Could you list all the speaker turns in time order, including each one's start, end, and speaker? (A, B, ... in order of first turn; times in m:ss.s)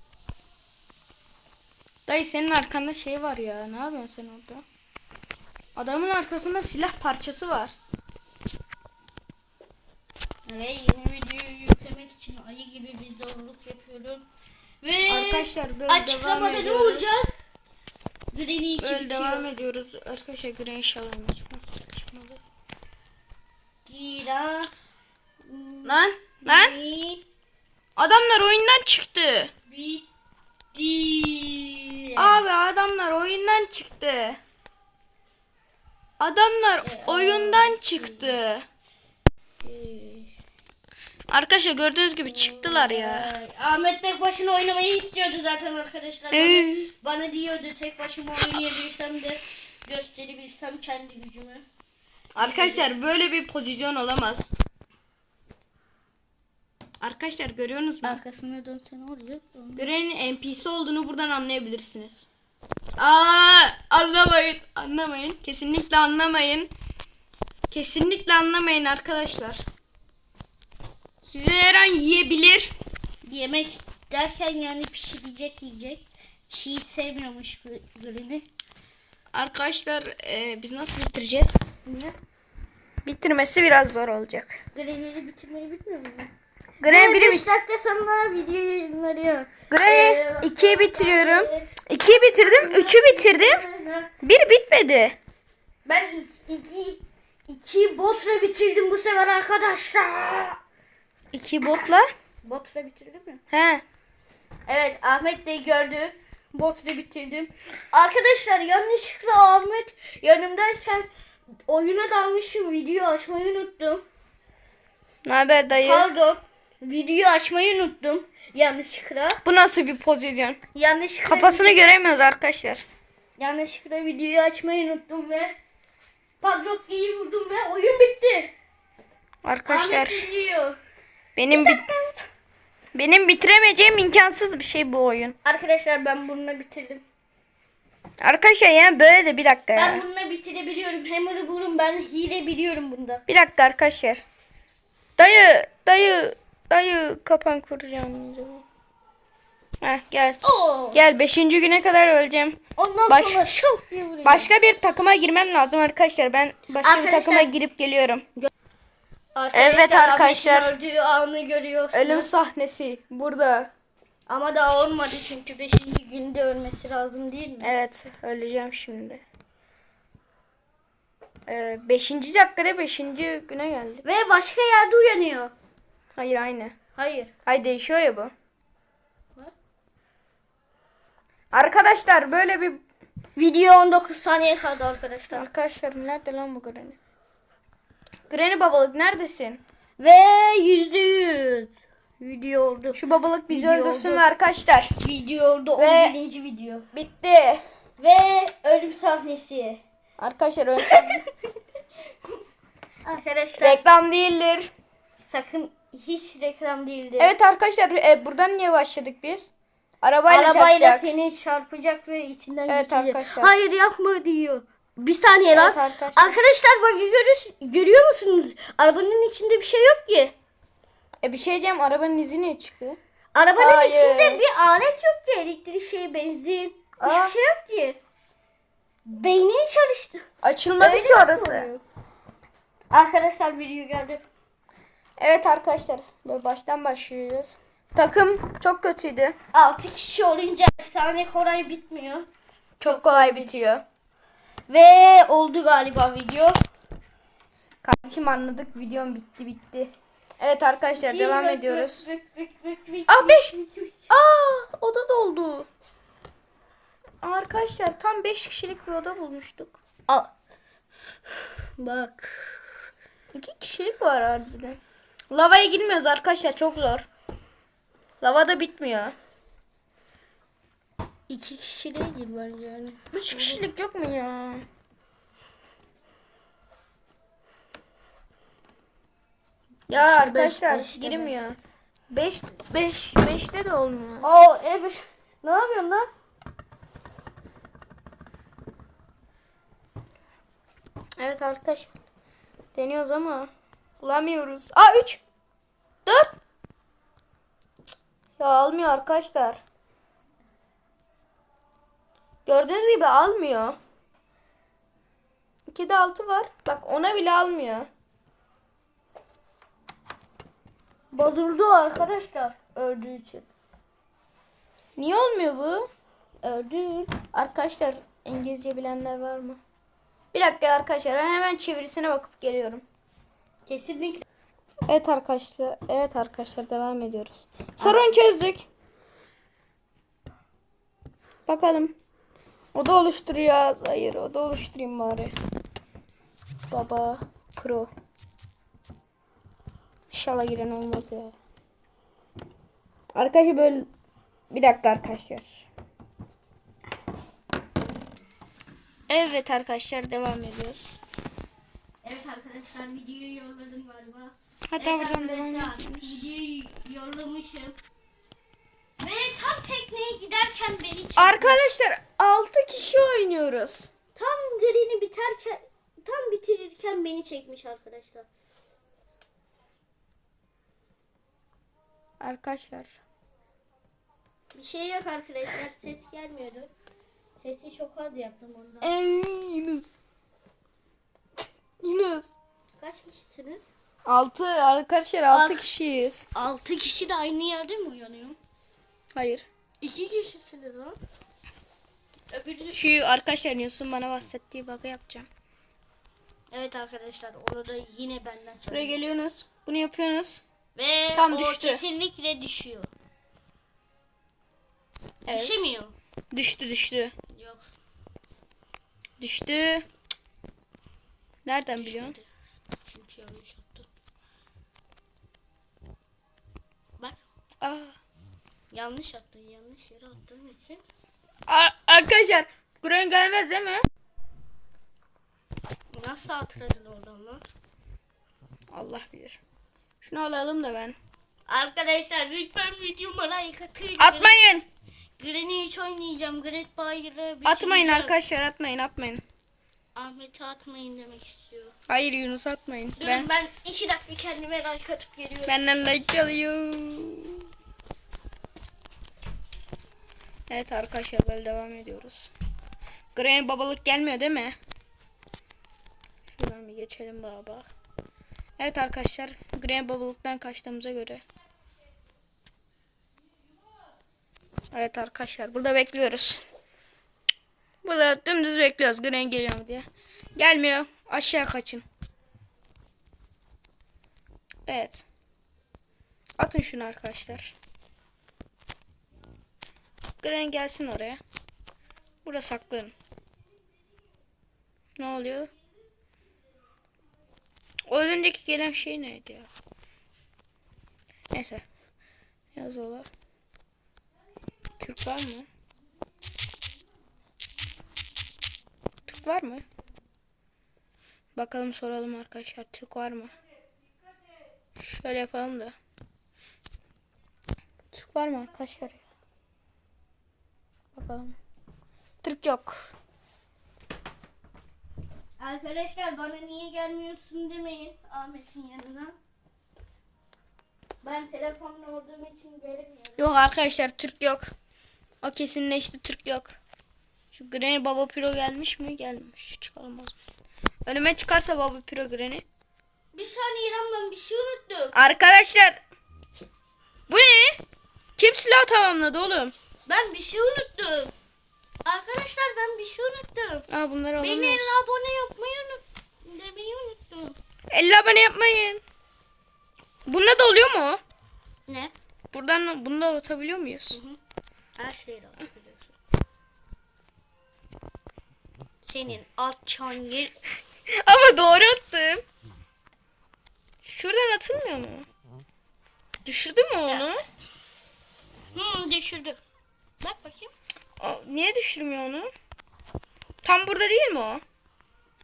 0:02.1-0:04.6 A
0:05.8-0:07.8 A
0:10.5-0:14.3 B
0:14.8-0:17.3 B
0:15.1-0:17.1 A
0:18.3-0:19.5 B
0:18.8-0:22.4 A
0:23.9-0:24.7 B
0:25.4-0:27.2 B
0:25.8-0:26.8 A
0:28.0-0:29.5 A
0:29.7-0:30.0 B
0:30.7-0:32.4 B
0:32.2-0:34.4 A
0:36.2-0:38.7 A
0:36.8-0:38.4 B
0:39.6-0:40.3 B
0:41.3-0:43.3 A
0:42.2-0:51.6 B
0:46.3-0:46.9 A
0:52.4-0:54.5 A
0:52.4-0:52.9 B
0:57.0-0:58.2 A
0:58.0-0:59.9 B
0:59.8-1:02.3 A
1:03.0-1:06.7 A
1:07.7-1:09.6 A
1:11.2-1:12.7 A
1:13.2-1:18.5 B
1:19.3-1:21.7 A
1:21.9-1:22.2 B
1:23.0-1:24.6 A
1:24.7-1:26.3 B
1:26.8-1:27.6 A
1:26.9-1:34.1 B
1:29.7-1:33.6 A
1:34.2-1:35.2 A
1:35.9-1:40.6 B
1:41.3-1:42.1 A
1:42.4-1:43.4 B
1:43.5-1:43.8 A
1:44.7-1:51.1 B
1:51.7-1:54.0 B
1:55.2-1:56.1 A
1:55.8-1:59.4 B
1:59.4-2:00.6 A
2:00.8-2:01.8 B
2:01.3-2:02.8 A
2:03.4-2:05.6 B
2:06.4-2:08.5 B
2:09.4-2:10.3 A
2:09.7-2:10.8 B
2:11.4-2:11.8 A
2:11.5-2:12.2 B
2:12.9-2:15.4 A
2:15.4-2:17.0 B
2:18.2-2:20.0 A
2:19.8-2:23.2 B
2:23.3-2:24.2 A
2:25.2-2:28.6 A
2:29.8-2:30.4 A
2:30.4-2:31.0 B
2:30.9-2:33.5 A
2:32.8-2:34.5 B
2:34.2-2:38.3 A
2:36.8-2:37.5 B
2:39.4-2:42.3 B
2:39.5-2:40.7 A
2:41.9-2:43.7 A
2:44.3-2:47.8 B
2:47.6-2:49.2 A
2:51.5-2:54.0 A
2:54.0-2:55.5 B
2:56.2-2:56.8 A
2:57.0-2:57.3 B
2:57.5-2:58.3 A
3:01.5-3:02.8 A
3:03.4-3:05.5 B
3:05.3-3:07.0 A
3:08.3-3:09.6 A
3:10.0-3:14.3 B
3:13.0-3:14.9 A
3:15.0-3:16.9 B
3:15.8-3:16.2 A
3:16.9-3:17.6 A
3:18.0-3:19.8 B
3:20.2-3:21.2 A
3:20.8-3:21.2 B
3:23.0-3:23.8 B
3:23.6-3:24.7 A
3:25.2-3:27.4 B
3:27.2-3:29.5 A
3:30.0-3:31.0 A
3:30.3-3:40.4 B
3:32.7-3:33.5 A
3:35.5-3:36.4 A
3:41.2-3:43.0 A
3:43.3-3:48.0 B
3:43.6-3:44.4 A
3:47.0-3:47.3 A
3:49.1-3:50.3 B
3:50.4-3:51.8 A
3:50.8-3:51.7 B
3:52.9-3:54.2 B
3:55.2-3:59.4 A
3:59.5-4:02.3 B
4:02.8-4:03.8 A
4:02.8-4:03.6 B
4:04.7-4:06.6 B
4:07.8-4:12.1 A
4:11.0-4:14.1 B
4:13.1-4:13.5 A
4:14.1-4:15.7 A
4:17.2-4:19.8 A
4:21.8-4:22.6 B
4:23.3-4:24.8 A
4:25.3-4:27.1 A
4:28.2-4:29.2 A
4:31.3-4:33.6 B
4:33.1-4:34.7 A
4:39.9-4:41.4 B
4:39.9-4:41.6 A
4:42.1-4:44.3 A
4:44.2-4:46.1 B
4:51.2-4:51.9 A
4:52.8-4:55.2 A
4:56.0-4:56.3 A
4:58.4-4:59.6 A
5:02.5-5:03.8 A
5:05.7-5:07.9 A
5:11.1-5:13.5 B
5:15.0-5:15.9 A
5:16.4-5:17.2 B
5:17.3-5:19.6 A
5:20.3-5:22.8 A
5:23.7-5:24.2 B
5:24.9-5:28.7 A
5:27.8-5:28.1 B
5:31.5-5:31.9 A
5:32.7-5:35.3 A
5:36.7-5:37.9 A
5:40.1-5:41.4 A
5:43.1-5:43.9 A
5:44.5-5:45.7 A
5:49.1-5:51.0 A
5:52.0-5:57.8 B
5:54.7-5:56.2 A
5:59.0-6:01.6 B
6:01.2-6:03.9 A
6:04.2-6:08.3 B
6:12.2-6:13.0 A
6:14.5-6:16.7 B
6:17.4-6:18.9 B
6:18.8-6:19.9 A
6:21.8-6:22.4 A
6:22.8-6:23.6 B
6:24.0-6:26.3 A
6:25.3-6:25.6 B
6:26.3-6:28.4 B
6:29.1-6:29.5 A
6:29.8-6:31.0 B
6:32.3-6:32.8 B
6:32.7-6:35.3 A
6:36.5-6:39.0 B
6:38.7-6:40.4 A
6:40.8-6:42.9 B
6:41.2-6:41.8 A
6:45.3-6:45.6 A
6:45.3-6:45.9 B
6:46.3-6:47.1 A
6:47.3-6:47.6 B
6:49.2-6:49.9 A
6:51.4-6:52.2 A
6:51.8-6:52.2 B
6:52.8-6:53.9 B
6:57.6-6:58.0 A
6:58.7-7:00.8 B
7:01.5-7:03.8 A
7:05.9-7:07.4 B
7:08.7-7:09.4 A
7:10.0-7:11.0 A
7:11.5-7:14.4 B
7:14.0-7:14.7 A
7:15.2-7:18.2 B
7:17.4-7:19.2 A
7:20.0-7:21.8 B
7:21.9-7:23.3 A
7:23.0-7:25.6 B
7:25.5-7:27.4 A
7:30.5-7:32.3 A
7:33.2-7:34.6 A
7:36.3-7:37.7 A
7:38.6-7:41.2 A
7:44.7-7:46.4 A
7:47.8-7:51.8 A
7:54.7-7:55.1 A
7:56.4-7:57.6 A
8:00.2-8:01.2 A
8:02.2-8:02.9 A
8:05.0-8:05.5 A
8:07.9-8:09.5 A
8:11.3-8:11.6 A
8:12.5-8:13.1 A
8:14.8-8:15.5 A
8:19.1-8:19.6 A
8:21.4-8:23.3 A
8:24.8-8:25.8 A
8:27.9-8:29.0 A
8:31.0-8:31.4 A
8:32.2-8:32.9 A
8:35.4-8:39.2 B
8:41.0-8:43.3 B
8:43.2-8:44.5 A
8:45.2-8:46.6 A
8:47.3-8:50.2 A
8:50.9-8:52.4 A
8:53.1-8:55.0 B
8:54.9-8:55.8 A
8:57.1-8:57.6 A
8:58.2-8:59.6 A
8:59.9-9:01.1 B
9:01.8-9:03.7 B
9:03.7-9:04.7 A
9:04.2-9:07.4 B
9:07.7-9:08.8 A
9:10.1-9:11.0 A
9:11.7-9:11.9 B
9:12.3-9:14.0 A
9:13.9-9:14.2 B
9:14.8-9:15.9 B
9:18.8-9:20.3 B
9:20.9-9:22.2 A
9:23.8-9:25.1 A
9:26.2-9:27.2 A
9:28.5-9:29.4 B
9:30.0-9:30.5 B
9:31.0-9:32.3 A
9:33.4-9:34.4 A